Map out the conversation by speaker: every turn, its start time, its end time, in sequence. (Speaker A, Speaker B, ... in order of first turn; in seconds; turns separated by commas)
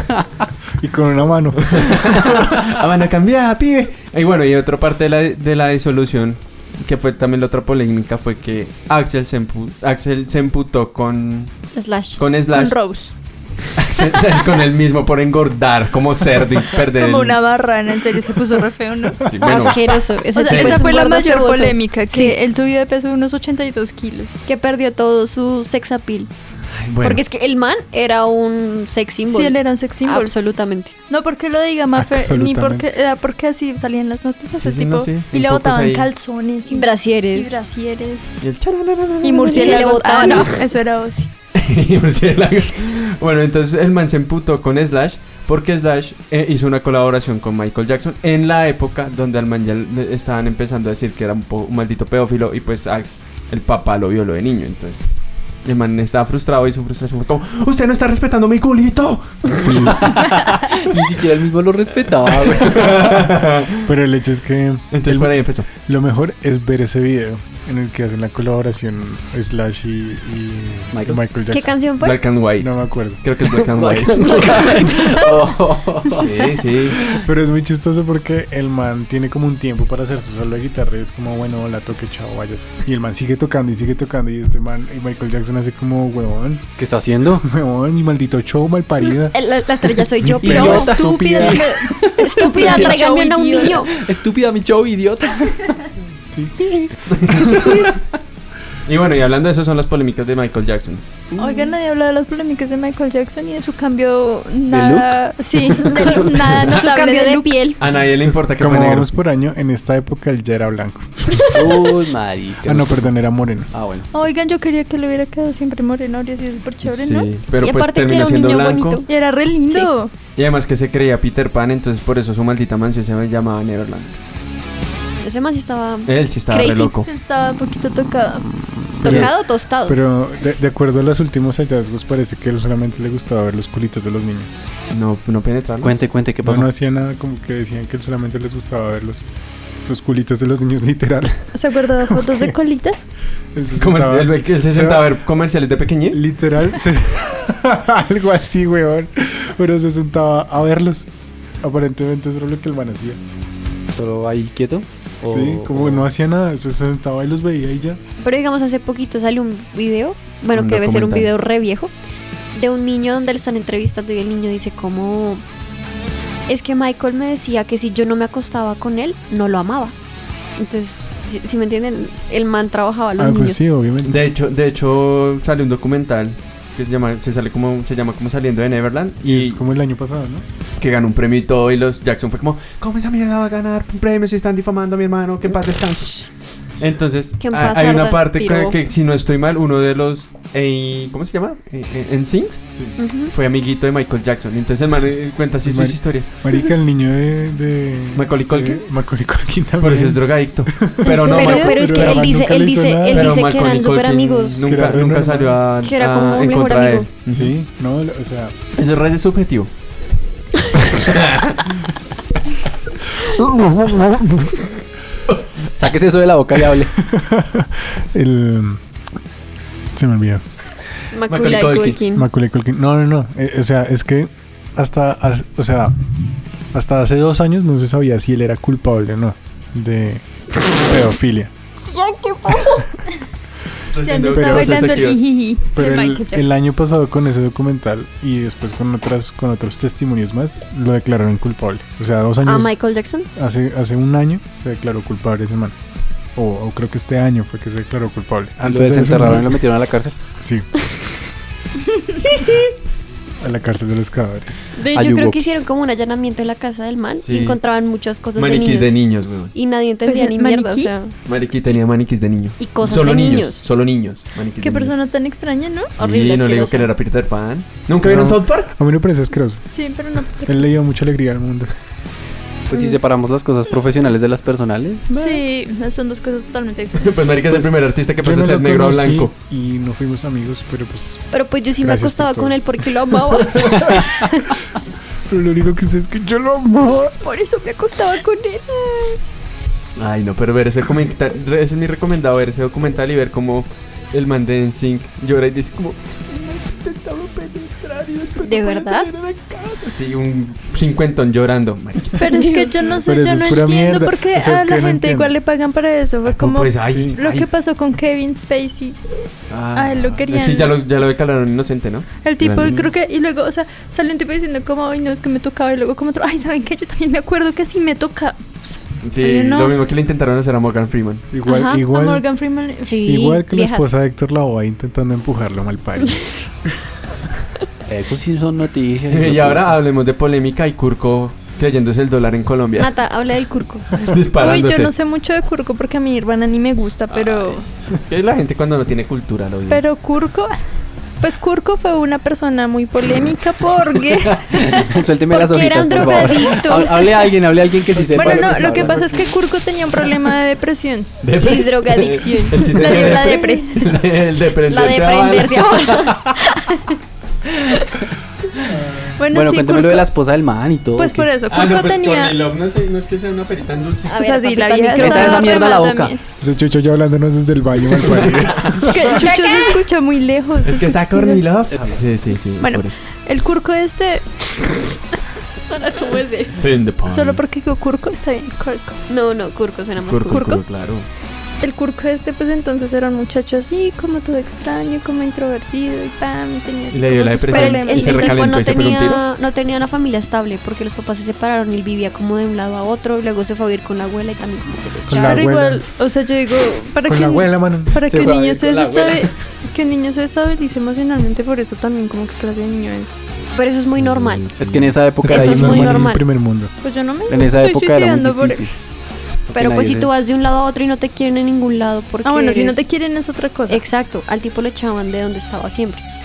Speaker A: 0.8-2.4, Speaker B: 1.7-11.5, Speaker C: 11.7-12.2, Speaker B: 12.2-12.8, Speaker D: 12.5-13.1, Speaker B: 13.8-17.4, Speaker D: 16.8-19.3, Speaker B: 19.2-19.8, Speaker C: 19.4-22.4, Speaker D: 20.3-24.3, Speaker B: 20.4-20.9, Speaker C: 24.4-26.3, Speaker B: 26.7-27.2, Speaker C: 27.0-30.9, Speaker D: 29.3-30.3, Speaker D: 31.1-38.4, Speaker A: 31.9-32.9, Speaker B: 34.6-36.1, Speaker C: 36.7-37.6, Speaker B: 38.4-40.4, Speaker D: 39.2-41.3, Speaker C: 39.5-40.6, Speaker B: 41.5-55.1, Speaker B: 55.6-60.0, Speaker A: 59.5-60.3, Speaker E: 60.0-63.0, Speaker B: 62.4-63.9, Speaker A: 63.7-71.8, Speaker B: 64.9-65.7, Speaker E: 70.9-71.2, Speaker C: 71.5-72.2, Speaker B: 72.0-74.9, Speaker A: 72.6-73.2, Speaker E: 73.6-77.2, Speaker C: 74.2-75.3, Speaker B: 76.1-77.0, Speaker A: 77.1-86.7, Speaker E: 86.8-87.4, Speaker A: 87.4-89.4, Speaker C: 89.2-91.6, Speaker A: 90.2-91.1, Speaker E: 90.4-93.0, Speaker D: 90.6-93.9, Speaker C: 92.2-93.9, Speaker E: 93.9-95.8, Speaker A: 96.3-97.7, Speaker B: 97.1-97.9, Speaker B: 98.8-101.0, Speaker D: 101.4-107.6, Speaker E: 104.7-105.2, Speaker E: 105.7-106.3, Speaker C: 106.0-107.8, Speaker B: 107.8-109.1, Speaker A: 108.2-111.9, Speaker E: 111.5-113.1, Speaker A: 112.6-113.7, Speaker E: 113.7-114.1, Speaker D: 114.1-117.3, Speaker B: 116.8-119.0, Speaker C: 117.6-119.1, Speaker D: 119.1-120.1, Speaker B: 120.4-124.1, Speaker C: 125.2-126.9, Speaker B: 126.0-127.1, Speaker D: 127.0-128.6, Speaker C: 129.0-130.0, Speaker A: 129.0-134.5, Speaker B: 134.9-136.0, Speaker E: 135.8-136.7, Speaker A: 136.4-139.2, Speaker A: 139.8-142.5, Speaker D: 141.5-143.1, Speaker A: 143.5-145.1, Speaker B: 143.7-146.2, Speaker A: 146.1-151.1, Speaker A: 151.6-153.2, Speaker E: 153.9-156.1, Speaker A: 155.2-158.0, Speaker C: 158.2-161.9, Speaker B: 160.5-161.3, Speaker C: 162.5-165.4, Speaker C: 166.5-169.9, Speaker C: 170.6-173.6, Speaker A: 173.2-174.2, Speaker B: 174.0-179.6, Speaker A: 179.2-180.4, Speaker B: 180.8-186.3, Speaker B: 186.8-192.6, Speaker C: 187.4-188.8, Speaker C: 193.0-193.3, Speaker B: 193.3-196.3, Speaker A: 194.9-203.4, Speaker B: 198.1-198.8, Speaker B: 199.8-202.3, Speaker D: 201.0-201.8, Speaker C: 201.1-204.7, Speaker B: 203.1-207.5, Speaker A: 204.6-205.6, Speaker C: 205.8-207.1, Speaker A: 207.3-208.5, Speaker B: 208.8-209.7, Speaker B: 210.9-211.8, Speaker E: 215.8-216.9, Speaker A: 217.0-218.8, Speaker A: 219.9-220.4, Speaker C: 221.1-222.3, Speaker B: 221.3-222.0, Speaker A: 222.1-226.0, Speaker A: 226.7-231.5, Speaker C: 231.9-232.8, Speaker B: 233.9-235.2, Speaker D: 234.0-236.5, Speaker A: 234.4-234.8, Speaker A: 235.7-242.8, Speaker C: 242.4-243.3, Speaker A: 243.3-245.8, Speaker A: 246.3-249.6, Speaker E: 248.6-250.1, Speaker A: 250.4-250.7, Speaker A: 253.4-254.7, Speaker C: 254.7-259.0, Speaker E: 254.9-255.6, Speaker B: 257.2-257.6, Speaker B: 258.4-259.5, Speaker C: 259.5-261.1, Speaker D: 260.0-260.9, Speaker B: 261.2-264.9, Speaker C: 262.6-263.6, Speaker D: 264.6-265.9, Speaker B: 265.9-268.7, Speaker C: 265.9-266.9, Speaker A: 268.0-269.6, Speaker D: 269.7-270.7, Speaker A: 270.4-271.7, Speaker E: 272.7-275.4, Speaker D: 275.1-277.4, Speaker B: 277.0-279.3, Speaker A: 277.4-281.2, Speaker C: 281.3-284.2, Speaker A: 281.8-282.6, Speaker A: 283.5-284.1, Speaker A: 285.2-287.1, Speaker D: 287.2-289.2, Speaker B: 289.9-302.3, Speaker C: 298.4-299.1, Speaker D: 302.2-309.0, Speaker C: 302.3-302.7, Speaker A: 303.0-305.3, Speaker B: 306.2-307.5, Speaker A: 306.8-307.1, Speaker B: 309.5-312.8, Speaker D: 309.7-310.7, Speaker D: 312.2-319.8, Speaker B: 319.0-321.2, Speaker A: 321.3-322.2, Speaker C: 321.4-321.8, Speaker D: 321.6-323.0, Speaker C: 322.8-323.9, Speaker A: 323.0-326.3, Speaker E: 327.9-329.7, Speaker B: 329.1-332.9, Speaker C: 332.8-333.9, Speaker B: 334.0-334.9, Speaker D: 334.4-337.6, Speaker B: 337.1-339.8, Speaker D: 339.7-340.6, Speaker D: 341.2-344.9, Speaker E: 344.1-349.2, Speaker C: 345.3-347.3, Speaker D: 346.3-346.7, Speaker D: 348.1-351.1, Speaker B: 351.2-355.9, Speaker C: 351.4-353.5, Speaker D: 352.5-353.8, Speaker C: 354.6-357.0, Speaker E: 357.5-357.9, Speaker A: 358.7-359.1, Speaker D: 359.2-360.1, Speaker E: 359.3-361.3, Speaker D: 360.9-362.4, Speaker B: 361.5-364.1, Speaker C: 364.1-365.8, Speaker D: 364.2-366.2, Speaker E: 365.0-366.1, Speaker A: 366.4-369.2, Speaker B: 368.0-368.9, Speaker D: 368.9-371.5, Speaker C: 369.1-369.8, Speaker B: 370.6-373.0, Speaker E: 371.7-372.0, Speaker D: 372.6-374.8, Speaker C: 375.7-376.6, Speaker B: 376.6-377.4, Speaker D: 377.1-379.0, Speaker C: 379.1-380.5, Speaker B: 380.0-381.1, Speaker D: 380.3-380.6, Speaker D: 381.6-388.7, Speaker B: 386.9-389.2, Speaker C: 387.5-395.4, Speaker A: 395.1-395.9, Speaker D: 395.1-403.1, Speaker A: 397.0-398.1, Speaker E: 398.0-399.3, Speaker C: 403.5-404.5, Speaker B: 404.0-404.9, Speaker E: 404.6-406.2, Speaker A: 405.2-406.7, Speaker C: 405.2-406.2, Speaker D: 406.8-408.7, Speaker E: 407.3-408.7, Speaker E: 409.5-410.1, Speaker C: 409.5-412.8, Speaker D: 412.2-413.8, Speaker C: 413.7-416.0